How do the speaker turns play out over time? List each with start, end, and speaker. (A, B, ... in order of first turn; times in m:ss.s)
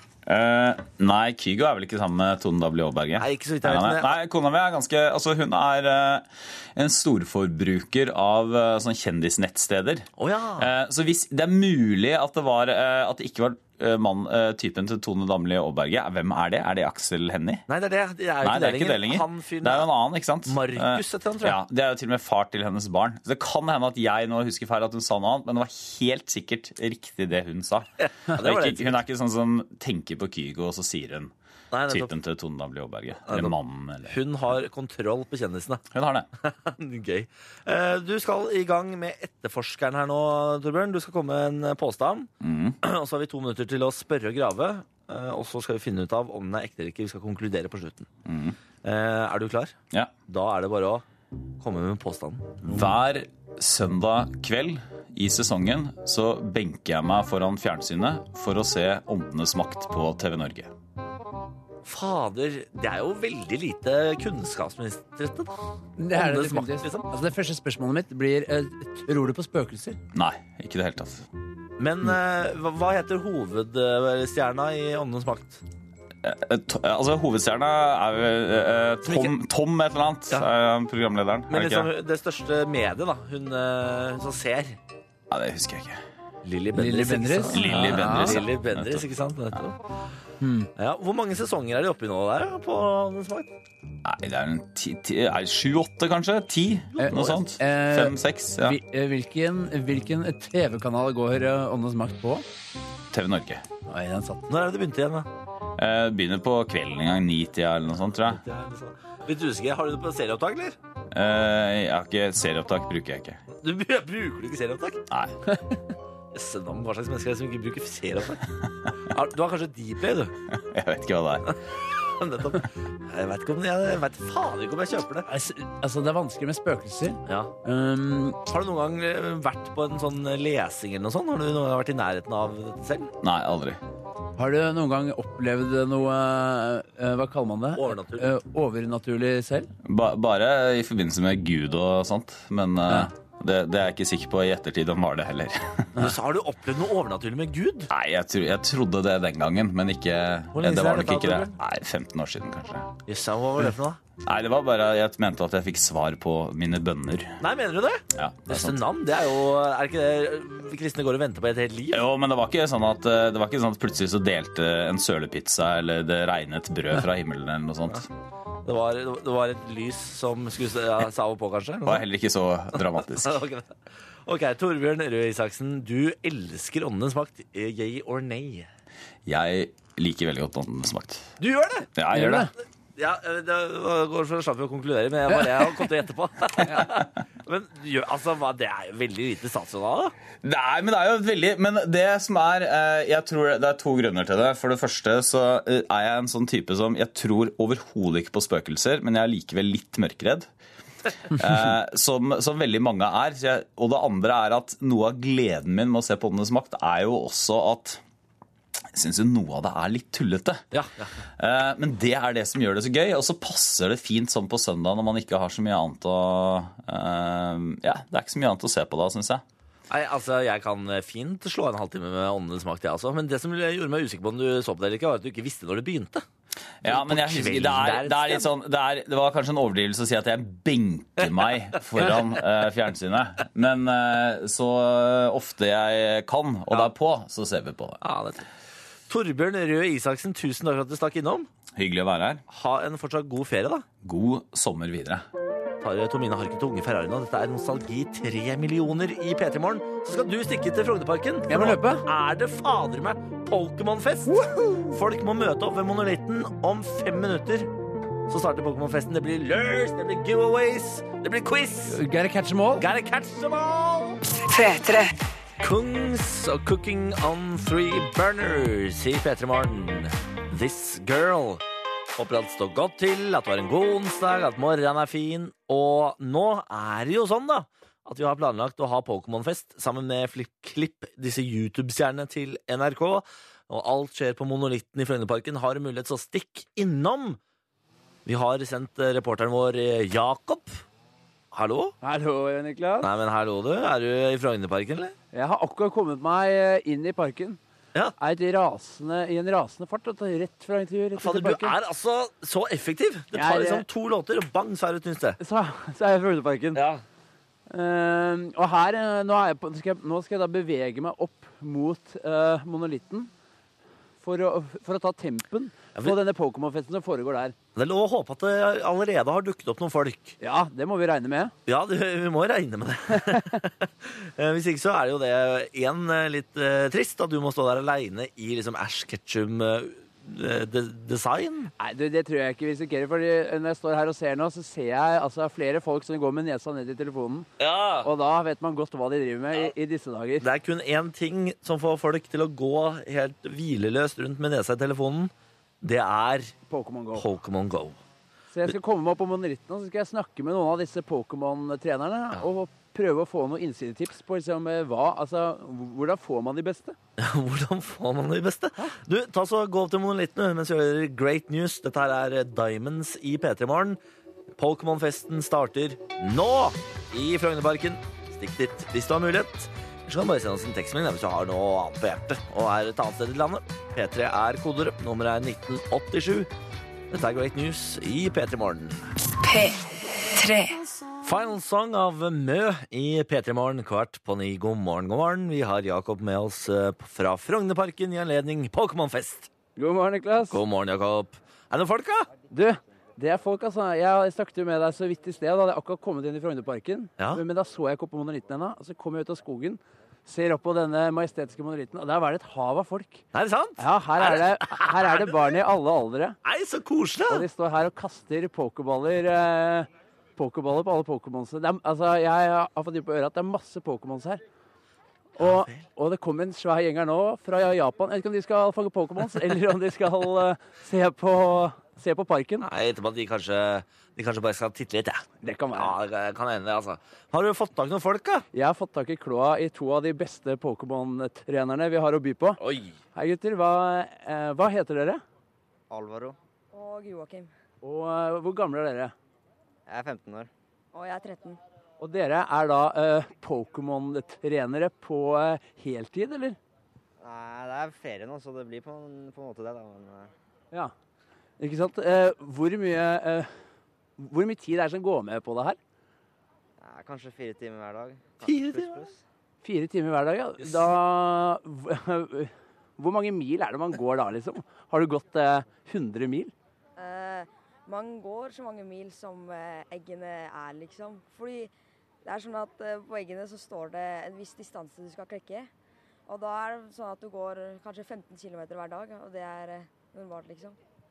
0:00.3-0:10.1 A
0:03.2-0:04.2 B
0:10.2-0:10.7 B
0:10.6-0:17.6 A
0:17.7-0:19.9 B
0:18.4-0:31.3 A
0:20.4-0:21.6 B
0:28.0-0:29.0 B
0:31.7-0:32.1 B
0:31.9-0:34.2 A
0:33.3-0:33.5 B
0:34.0-0:35.8 B
0:35.9-0:36.3 A
0:36.4-0:42.3 B
0:42.4-0:42.8 A
0:42.8-0:48.1 B
0:48.3-0:48.6 A
0:48.8-0:49.8 B
0:50.3-0:51.0 B
0:51.6-0:52.9 B
0:52.6-1:00.7 A
1:01.8-1:05.5 B
1:06.0-1:10.0 C
1:06.1-1:07.1 B
1:10.1-1:11.3 A
1:11.8-1:15.6 B
1:16.2-1:21.9 A
1:19.0-1:19.3 B
1:21.5-1:24.8 B
1:25.3-1:26.0 A
1:26.4-1:29.8 B
1:26.8-1:28.4 C
1:27.5-1:29.1 A
1:30.4-1:30.7 C
1:30.8-1:33.5 B
1:34.0-1:38.8 A
1:37.0-1:42.4 C
1:43.1-1:43.6 A
1:43.9-1:44.5 C
1:44.5-1:45.3 B
1:45.8-1:48.4 A
1:48.3-1:50.8 B
1:51.1-1:53.4 A
1:53.5-1:55.0 B
1:56.3-1:58.4 B
1:59.0-2:00.3 B
2:00.5-2:01.4 A
2:01.5-2:05.3 B
2:05.3-2:08.4 C
2:07.3-2:07.5 B
2:08.5-2:13.1 B
2:13.2-2:13.8 A
2:14.4-2:19.7 C
2:17.8-2:18.3 B
2:19.8-2:25.9 A
2:26.0-2:27.9 B
2:27.9-2:32.9 A
2:30.5-2:31.6 B
2:33.1-2:34.0 B
2:34.2-2:37.4 A
2:37.4-2:42.0 B
2:38.2-2:38.8 A
2:41.9-2:48.0 A
2:48.7-2:52.0 B
2:51.9-2:53.3 A
2:52.8-2:53.7 B
2:54.3-2:58.7 B
2:59.3-3:01.3 A
3:01.4-3:01.9 B
3:02.0-3:02.5 A
3:02.1-3:02.5 C
3:03.0-3:10.1 B
3:06.7-3:07.0 A
3:10.4-3:20.5 A
3:21.3-3:28.0 A
3:28.9-3:30.6 A
3:30.7-3:31.2 B
3:31.4-3:39.4 A
3:39.9-3:46.2 B
3:46.8-3:58.0 A
3:46.8-3:48.5 B
3:51.8-3:52.2 B
3:58.0-3:58.5 B
3:59.1-4:01.5 B
4:01.7-4:02.4 A
4:02.5-4:03.9 B
4:04.0-4:05.2 A
4:05.8-4:17.7 B
4:11.5-4:12.1 C
4:14.3-4:14.9 C
4:18.3-4:22.0 B
4:21.9-4:22.9 C
4:22.8-4:24.2 B
4:24.4-4:25.1 D
4:25.6-4:31.6 B
4:32.2-4:47.4 B
4:48.3-4:50.8 B
4:51.5-4:52.0 B
4:52.0-4:53.1 C
4:53.0-4:55.2 B
4:55.3-4:57.6 C
4:58.2-5:01.8 C
5:01.2-5:05.4 B
5:03.3-5:03.9 C
5:05.4-5:06.8 C
5:06.7-5:07.0 B
5:07.7-5:13.3 C
5:14.2-5:17.6 C
5:17.8-5:20.4 B
5:20.4-5:21.5 C
5:21.7-5:31.7 B
5:23.1-5:23.6 C
5:31.8-5:37.5 C
5:37.6-5:38.1 B
5:38.0-5:40.5 C
5:40.4-5:46.6 B
5:46.7-5:47.3 C
5:47.2-5:48.0 B
5:48.5-5:57.0 C
5:57.2-6:04.0 B
6:04.6-6:16.5 B
6:17.1-6:19.1 B
6:19.4-6:20.8 D
6:21.2-6:29.5 B
6:29.8-6:30.6 C
6:30.5-6:32.3 B
6:32.5-6:43.2 C
6:43.3-6:45.3 B
6:43.8-6:46.4 C
6:46.4-6:47.5 B
6:47.3-6:54.4 C
6:55.4-7:02.7 C
6:55.4-6:55.8 B
7:02.6-7:08.4 B
7:05.4-7:06.0 C
7:08.5-7:12.6 C
7:12.6-7:13.0 B
7:13.2-7:15.2 C
7:15.9-7:16.4 E
7:16.7-7:17.5 F
7:17.8-7:19.1 C
7:19.9-7:20.5 E
7:20.9-7:21.6 F
7:22.0-7:26.6 C
7:27.2-7:30.3 E
7:31.6-7:33.5 C
7:34.2-7:35.8 C
7:36.8-7:39.2 E
7:38.4-7:39.0 B
7:39.6-7:46.5 C
7:47.0-7:51.7 F
7:52.2-7:55.7 F
7:56.3-8:00.8 F